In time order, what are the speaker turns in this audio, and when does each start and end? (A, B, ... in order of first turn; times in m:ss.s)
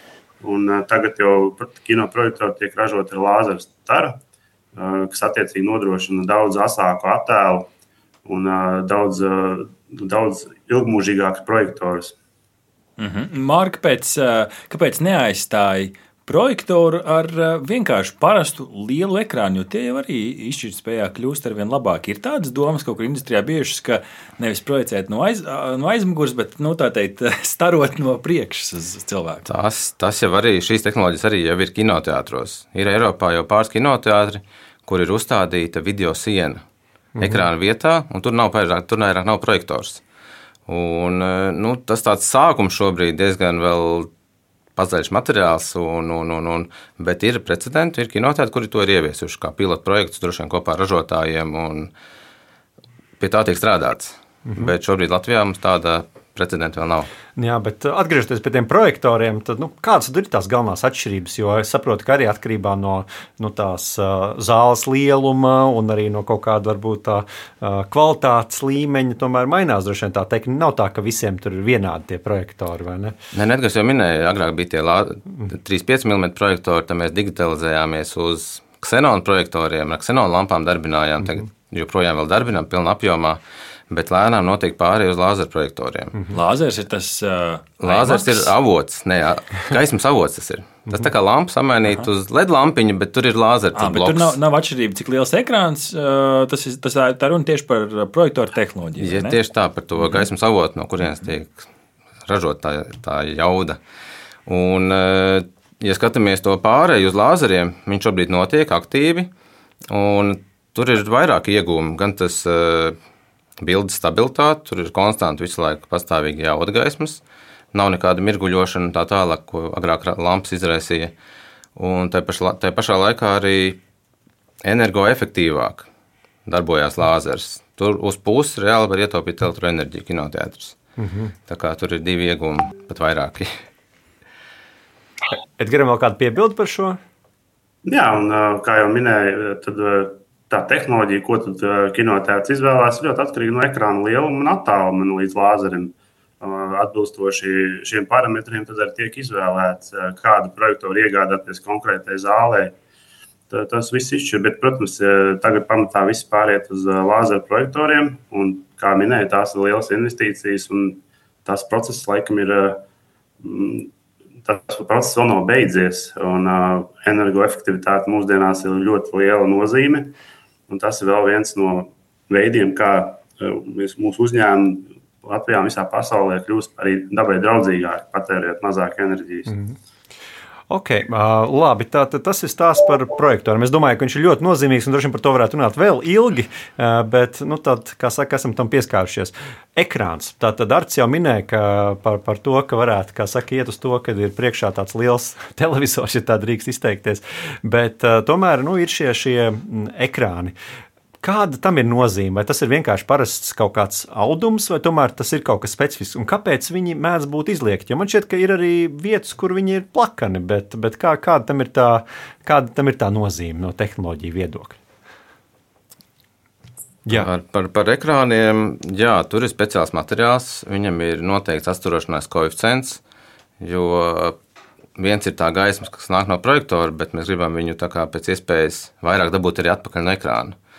0:00.4-0:04.1 A
0:04.7-0:07.7 A
0:08.2-0:12.1 A
0:13.0-0:29.4 B
0:29.4-0:36.6 C
0:37.2-0:37.4 D
0:37.2-0:40.0 C
0:40.7-0:44.1 C
0:44.8-0:51.9 C
0:53.2-0:57.1 C
0:57.4-1:13.1 D
1:13.3-1:26.2 C
1:26.3-1:28.5 B
1:27.8-1:34.4 C
1:33.7-1:39.4 B
1:39.0-1:41.6 C
1:42.3-1:43.8 C
1:44.5-1:49.3 C
1:49.9-1:53.0 C
1:53.6-1:57.2 C
1:57.7-2:01.1 C
2:01.8-2:03.8 C
2:04.6-2:05.9 C
2:06.5-2:10.8 C
2:11.0-2:11.3 D
2:11.5-2:13.5 C
2:15.6-2:17.0 D
2:17.8-2:32.7 A
2:33.5-2:42.8 A
2:43.4-2:43.9 A
2:44.4-2:50.2 A
2:50.7-2:59.5 A
3:00.7-3:20.5 D
3:21.2-3:34.8 D
3:37.1-3:43.0 C
3:43.6-3:44.4 C
3:45.0-3:50.5 C